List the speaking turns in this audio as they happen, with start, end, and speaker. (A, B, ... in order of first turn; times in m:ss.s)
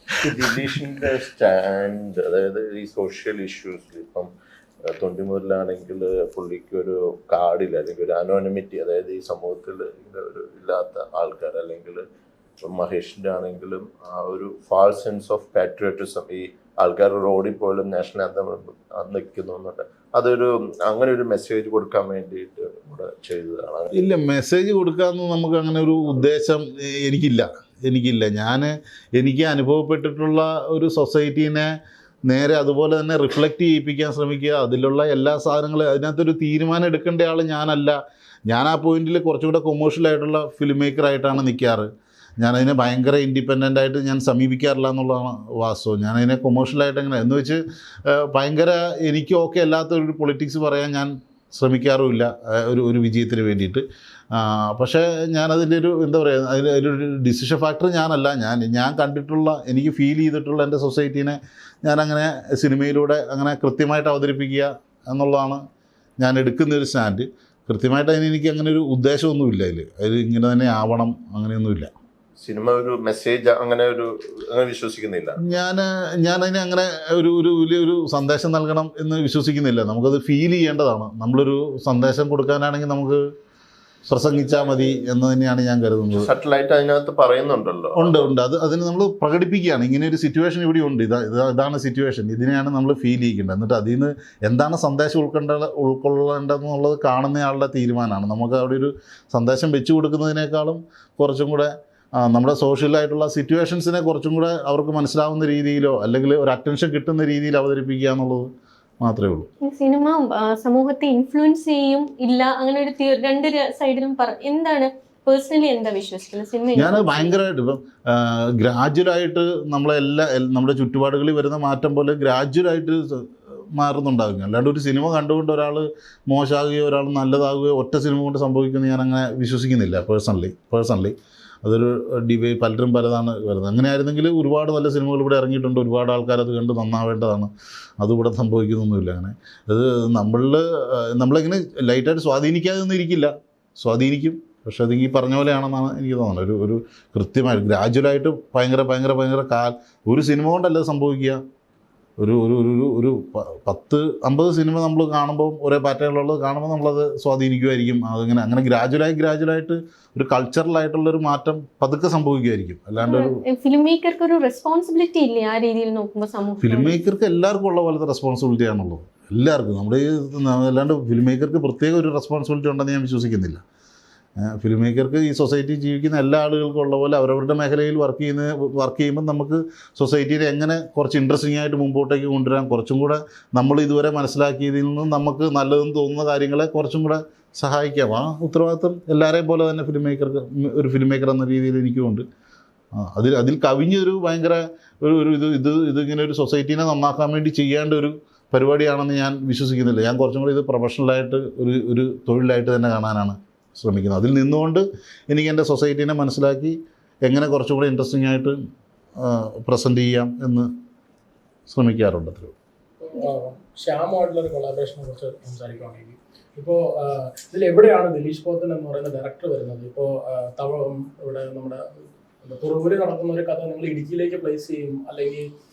0:00.2-0:04.3 A
0:04.8-0:12.0 A
0:12.6-0:24.0 A
0:23.9-0:31.7 B
0:32.3-0:41.8 B
0:42.4-1:05.6 B
1:06.2-1:11.9 B
1:12.4-1:15.4 A
1:15.4-1:23.2 B
1:24.1-1:26.3 B
1:26.2-1:28.2 A
1:28.0-1:41.7 B
1:42.2-1:48.5 B
1:49.0-1:49.5 B
1:49.6-1:57.3 C
1:56.8-2:31.4 B
2:32.2-2:43.3 B
2:43.0-2:47.0 C
2:46.6-2:53.6 B
2:54.4-3:12.2 B
3:13.0-3:26.8 B
3:27.3-3:28.6 B
3:29.2-3:30.7 B
3:31.7-3:32.5 B
3:33.0-3:45.5 D